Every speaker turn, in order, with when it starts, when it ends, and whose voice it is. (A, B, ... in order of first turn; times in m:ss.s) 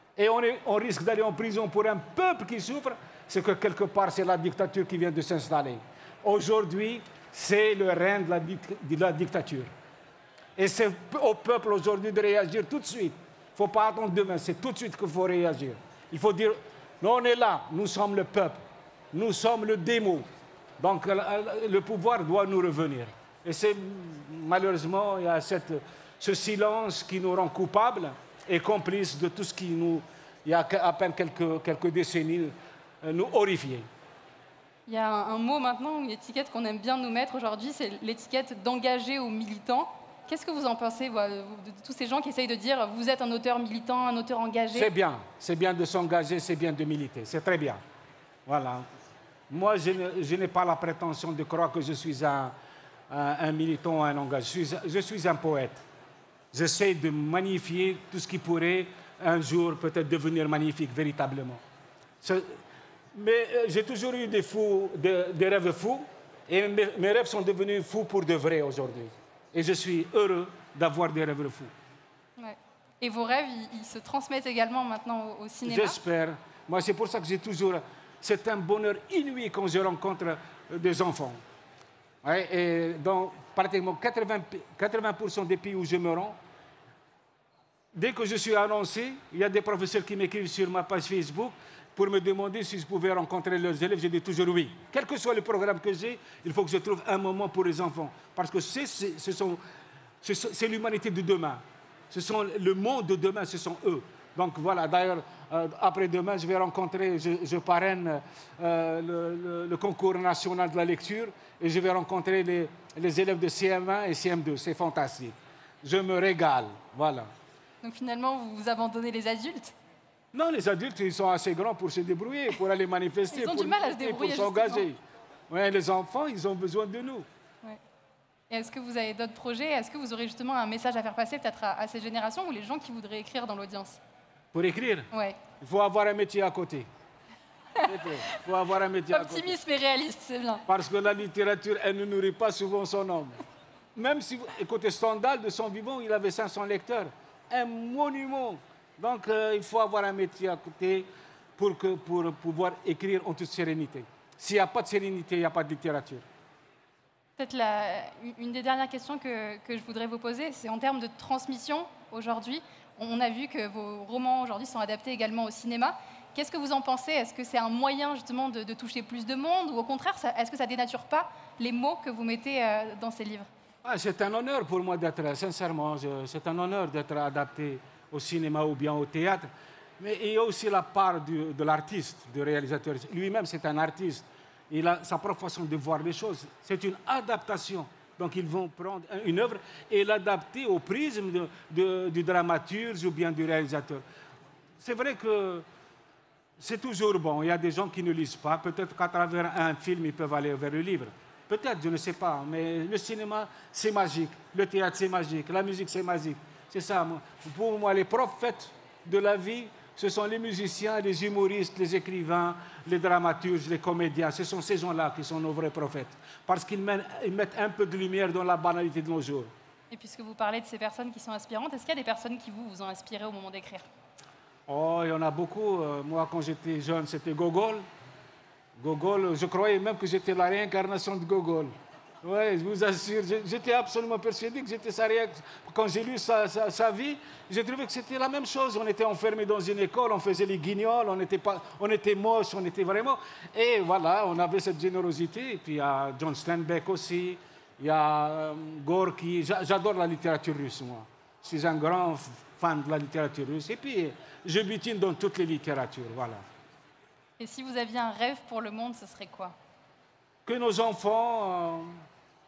0:00.2-0:09.7 A
0:10.6-0:18.6 A
0:19.1-0:20.2 A
0:20.8-0:33.9 A
0:34.9-0:44.9 B
0:44.8-0:47.8 A
0:48.5-0:48.9 A
0:49.5-0:52.5 A
0:53.1-0:55.8 A
0:56.5-1:01.6 A
1:03.1-1:11.7 A
1:12.4-1:16.0 B
1:15.6-1:21.4 A
1:22.2-1:26.4 A
1:27.9-1:39.6 A
1:40.2-1:57.3 A
1:57.8-1:59.7 B
2:00.3-2:05.0 A
2:03.3-2:04.9 B
2:05.5-2:07.2 A
2:08.5-2:14.0 B
2:14.5-2:16.9 A
2:15.1-2:15.4 B
2:17.8-2:19.5 A
2:19.1-2:20.6 B
2:20.7-2:23.4 A
2:24.0-2:36.2 A
2:37.4-2:53.5 B
2:53.8-3:14.0 A
3:14.8-3:15.6 A
3:16.6-3:39.5 A
3:39.9-3:43.8 B
3:44.7-3:47.8 A
3:48.8-4:16.4 A
4:17.4-4:19.5 B
4:20.4-4:22.0 A